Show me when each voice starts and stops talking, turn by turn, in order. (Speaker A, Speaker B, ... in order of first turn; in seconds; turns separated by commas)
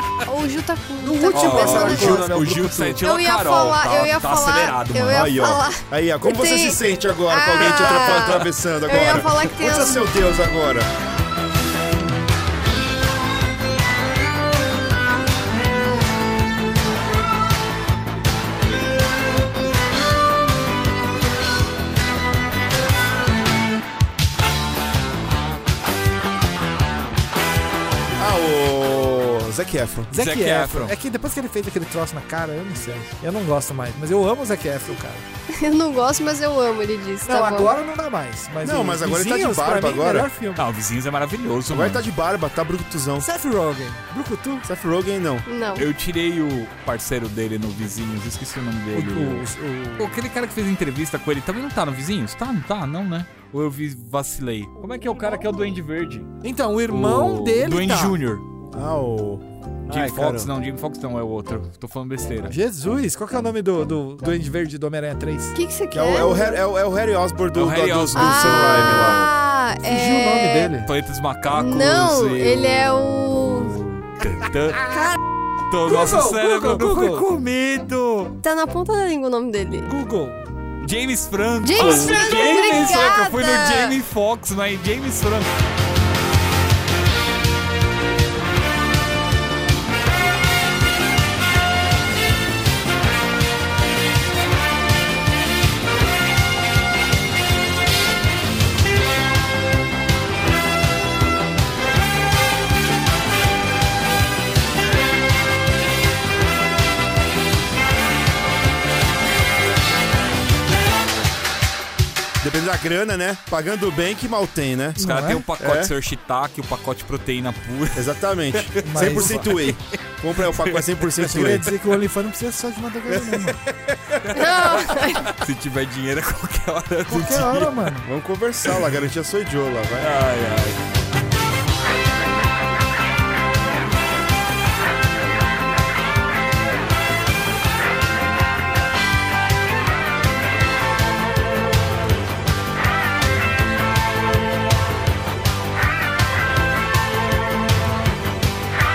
Speaker A: 0.2-2.3, Speaker B: 1.0-3.0, Speaker C: 1.3-5.4, Speaker A: 3.0-6.8, Speaker D: 5.1-10.9, Speaker A: 7.3-10.1, Speaker C: 7.6-8.4, Speaker D: 28.2-30.1, Speaker B: 30.1-35.3, Speaker C: 30.1-30.9, Speaker A: 35.5-37.7, Speaker B: 37.2-40.6, Speaker D: 38.6-40.3, Speaker C: 40.5-42.0, Speaker D: 41.7-43.3, Speaker B: 43.2-44.6, Speaker D: 44.6-45.5, Speaker A: 45.5-45.9, Speaker C: 45.8-49.5, Speaker B: 48.9-50.2, Speaker C: 50.0-56.3, Speaker B: 56.4-58.2, Speaker C: 56.9-58.5, Speaker D: 58.7-60.5, Speaker C: 59.9-62.6, Speaker B: 62.5-65.6, Speaker A: 65.5-66.6, Speaker D: 65.9-69.3, Speaker C: 67.5-69.2, Speaker A: 68.1-70.7, Speaker B: 69.8-70.9, Speaker C: 70.8-74.9, Speaker A: 71.5-73.8, Speaker A: 74.9-75.2, Speaker C: 75.7-78.4, Speaker B: 75.8-77.3, Speaker A: 78.4-79.9, Speaker B: 79.8-80.4, Speaker C: 80.8-85.5, Speaker A: 81.6-84.0, Speaker B: 81.8-82.1, Speaker D: 112.4-115.0, Speaker B: 115.0-115.5, Speaker C: 115.0-120.9, Speaker D: 115.6-115.9, Speaker D: 117.9-121.7, Speaker B: 118.9-119.5, Speaker B: 121.2-123.6, Speaker C: 123.1-127.8, Speaker A: 124.3-125.3, Speaker B: 127.1-128.1, Speaker D: 128.1-130.1, Speaker C: 130.0-130.8